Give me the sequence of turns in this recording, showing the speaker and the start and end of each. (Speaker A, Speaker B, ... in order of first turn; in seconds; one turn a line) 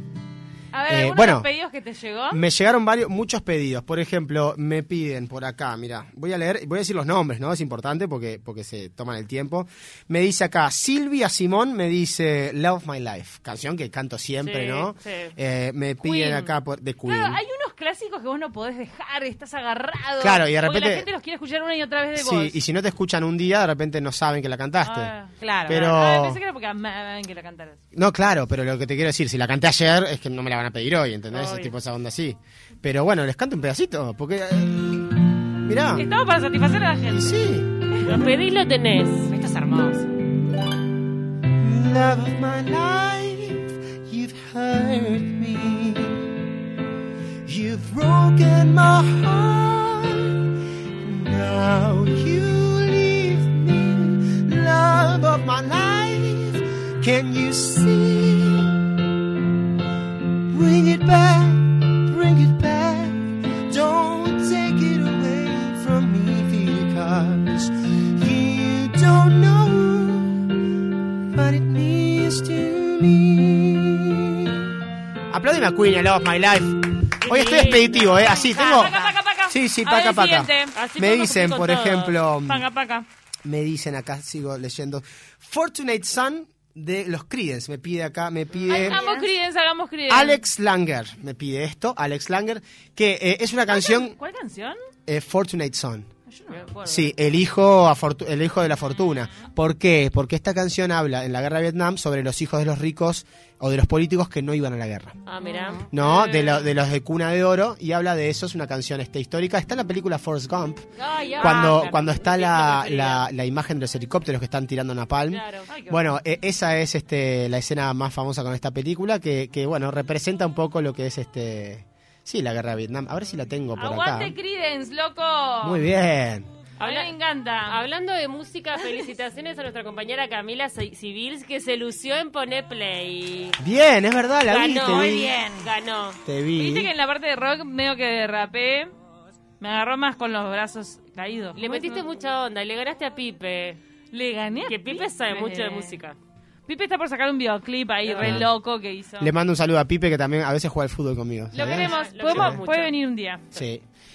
Speaker A: 0.7-2.4
Speaker B: 0.9-1.5
Speaker B: 2.3-17.4
Speaker C: 14.4-15.3
Speaker A: 16.0-16.5
Speaker A: 17.1-22.6
Speaker B: 20.2-21.1
Speaker B: 22.2-25.1
Speaker A: 24.8-27.8
Speaker D: 25.4-25.8
Speaker B: 25.7-26.4
Speaker B: 27.9-36.1
Speaker C: 31.3-31.7
Speaker A: 36.0-37.4
Speaker B: 37.1-37.7
Speaker A: 37.9-38.3
Speaker C: 38.0-39.3
Speaker D: 39.3-40.0
Speaker B: 41.6-46.3
Speaker B: 47.5-50.4
Speaker B: 51.0-58.9
Speaker B: 60.5-70.5
Speaker B: 71.3-74.8
Speaker B: 75.3-79.0
Speaker C: 77.2-78.4
Speaker A: 78.2-80.7
Speaker D: 78.3-79.2
Speaker B: 79.5-82.7
Speaker C: 80.8-82.1
Speaker A: 82.5-83.1
Speaker B: 83.5-89.0
Speaker A: 88.7-90.4
Speaker D: 88.7-89.3
Speaker B: 90.1-94.2
Speaker A: 93.7-94.8
Speaker B: 95.1-96.1
Speaker A: 96.3-96.6
Speaker C: 96.5-97.2
Speaker B: 96.8-105.2
Speaker C: 105.3-106.7
Speaker D: 105.4-105.8
Speaker B: 105.9-110.9
Speaker C: 111.0-113.3
Speaker B: 111.4-124.3
Speaker C: 115.3-115.7
Speaker A: 115.7-116.0
Speaker A: 123.8-125.8
Speaker B: 125.6-126.5
Speaker C: 126.8-127.1
Speaker A: 126.8-127.8
Speaker C: 127.7-133.6
Speaker B: 133.6-135.3
Speaker C: 134.5-136.2
Speaker D: 134.8-135.7
Speaker B: 136.3-136.9
Speaker A: 136.6-138.9
Speaker A: 139.6-142.0
Speaker C: 141.6-143.8
Speaker A: 144.1-145.9
Speaker C: 144.7-146.2
Speaker A: 146.7-149.3
Speaker C: 148.1-148.4
Speaker B: 148.2-148.5
Speaker B: 149.2-152.6
Speaker A: 151.5-153.4
Speaker C: 151.6-152.9
Speaker B: 153.5-153.8